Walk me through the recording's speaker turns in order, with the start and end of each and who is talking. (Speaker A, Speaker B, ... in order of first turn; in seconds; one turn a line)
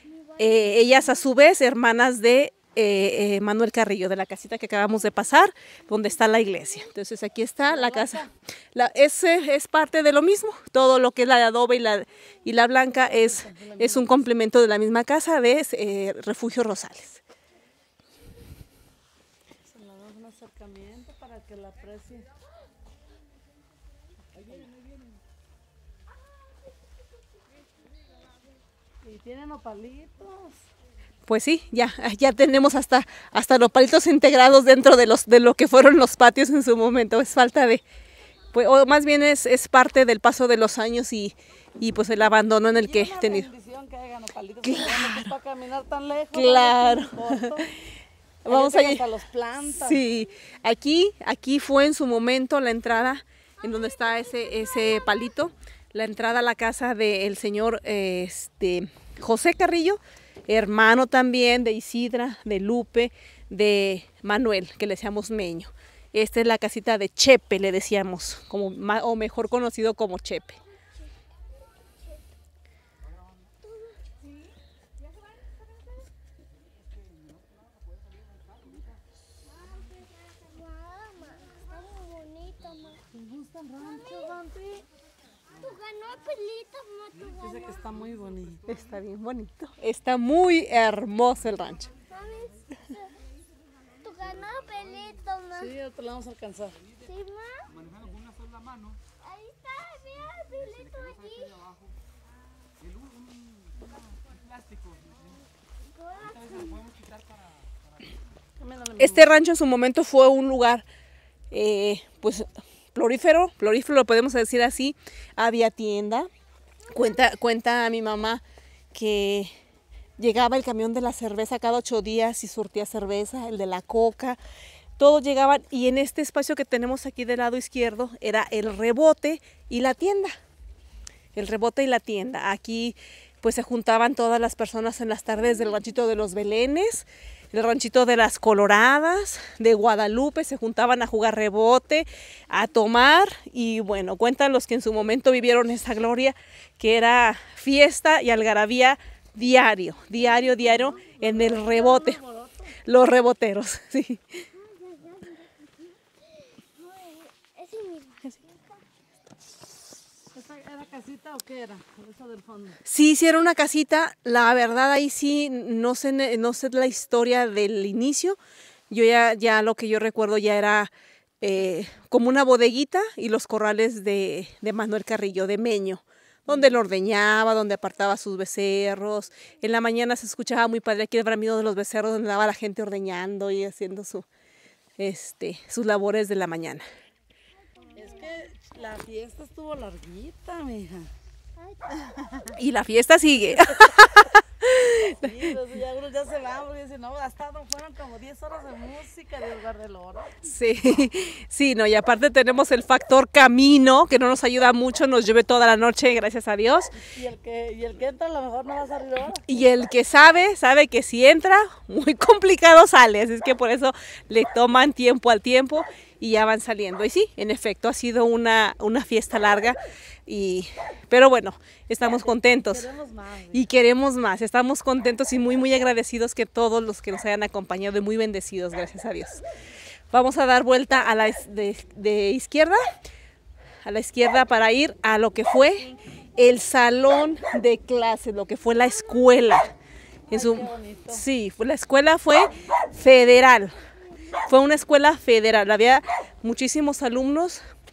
Speaker A: 0.1-1.0
Speaker B: 0.4-17.2
Speaker C: 7.7-8.3
Speaker C: 13.0-14.2
Speaker C: 19.7-22.3
Speaker C: 29.0-30.6
Speaker B: 31.3-37.8
Speaker B: 38.5-43.5
Speaker C: 42.8-47.7
Speaker B: 44.6-45.3
Speaker B: 46.3-47.6
Speaker B: 48.5-49.1
Speaker C: 48.5-50.0
Speaker B: 49.7-70.6
Speaker A: 53.6-55.3
Speaker A: 73.6-74.0
Speaker A: 79.5-83.0
Speaker C: 83.1-84.4
Speaker A: 83.8-84.8
Speaker A: 85.6-87.8
Speaker C: 87.4-88.6
Speaker B: 88.7-91.9
Speaker A: 92.1-93.1
Speaker A: 94.0-95.7
Speaker C: 95.5-96.8
Speaker A: 97.0-97.7
Speaker A: 99.2-101.6
Speaker A: 105.9-106.9
Speaker C: 108.6-109.3
Speaker B: 109.0-110.9
Speaker B: 111.5-116.3
Speaker A: 116.8-117.2
Speaker B: 116.9-119.5
Speaker B: 120.2-124.4
Speaker B: 125.0-130.4
Speaker B: 131.3-152.2
Speaker C: 150.3-152.7
Speaker B: 152.9-154.4
Speaker A: 154.5-158.8
Speaker C: 160.3-162.8
Speaker B: 162.9-168.4
Speaker B: 168.9-184.3
Speaker C: 176.5-176.8
Speaker B: 185.0-186.9
Speaker A: 187.8-188.3
Speaker C: 187.9-191.1
Speaker A: 191.6-192.6
Speaker B: 192.6-195.3
Speaker C: 195.2-200.3
Speaker B: 200.4-206.9
Speaker C: 206.9-209.4
Speaker B: 209.5-222.9
Speaker C: 222.2-223.7
Speaker B: 223.5-229.4
Speaker B: 230.1-232.8
Speaker B: 233.8-239.7
Speaker C: 240.3-241.2
Speaker B: 240.3-243.8
Speaker B: 244.5-247.6